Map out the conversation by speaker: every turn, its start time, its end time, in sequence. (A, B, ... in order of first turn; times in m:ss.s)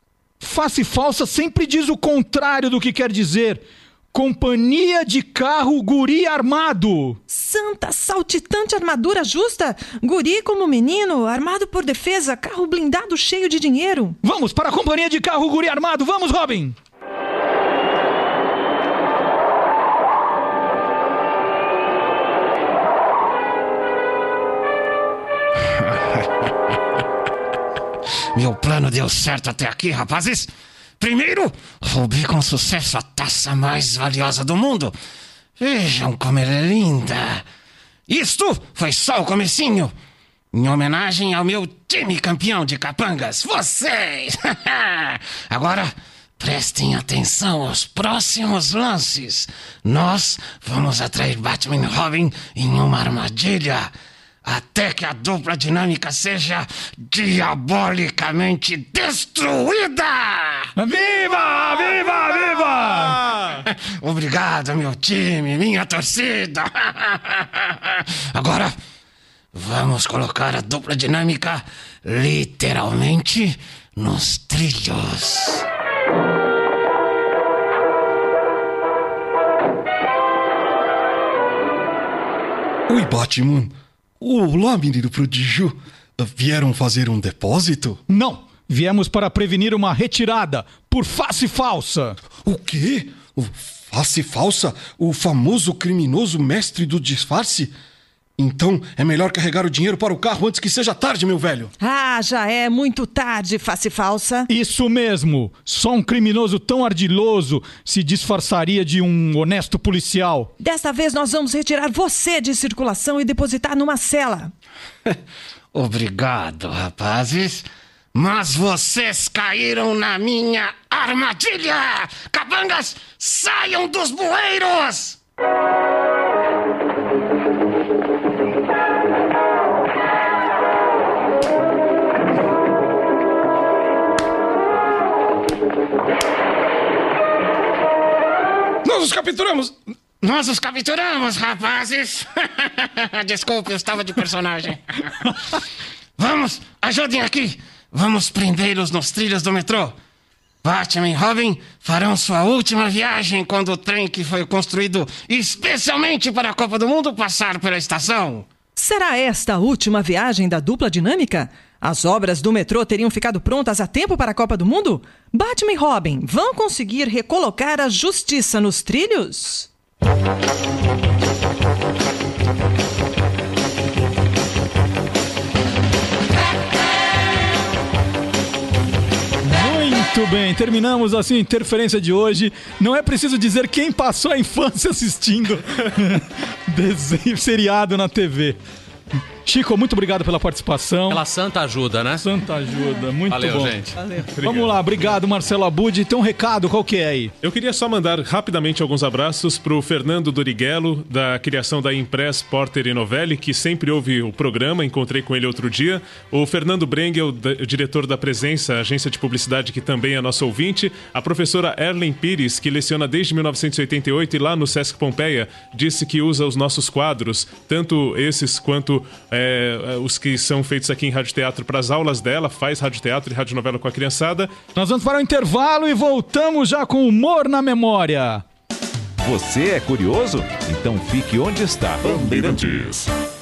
0:00.4-0:07.2 A
0:07.3-0:14.2 B
0:14.2-0:16.8 A
0:25.7-0:26.5 C
0:28.3-0:35.0 C
0:35.6-0:37.4 C
0:38.1-0:39.9 C
0:40.5-0:53.9 C
0:54.4-1:00.7 C
1:00.8-1:03.2 A
1:03.1-1:03.4 D
1:03.6-1:08.7 C
1:09.5-1:15.6 C
1:22.9-1:28.0 E
1:28.1-1:32.2 A
1:32.4-1:37.7 E
1:38.4-1:41.7 E
1:41.8-1:44.5 B
1:44.5-1:50.5 A
1:50.6-1:54.5 B
1:55.7-2:05.2 C
2:18.8-2:19.7 E
2:20.2-2:25.2 C
2:26.2-2:30.0 C
2:30.6-2:38.5 C
2:38.7-2:49.7 B
2:59.4-3:08.6 A
3:09.4-3:11.2 A
3:11.1-3:12.2 F
3:12.2-3:13.8 A
3:13.3-3:14.1 F
3:14.4-3:17.3 A
3:14.4-3:14.7 D
3:17.4-3:44.5 D
3:44.7-3:48.4 A
3:49.2-3:53.0 G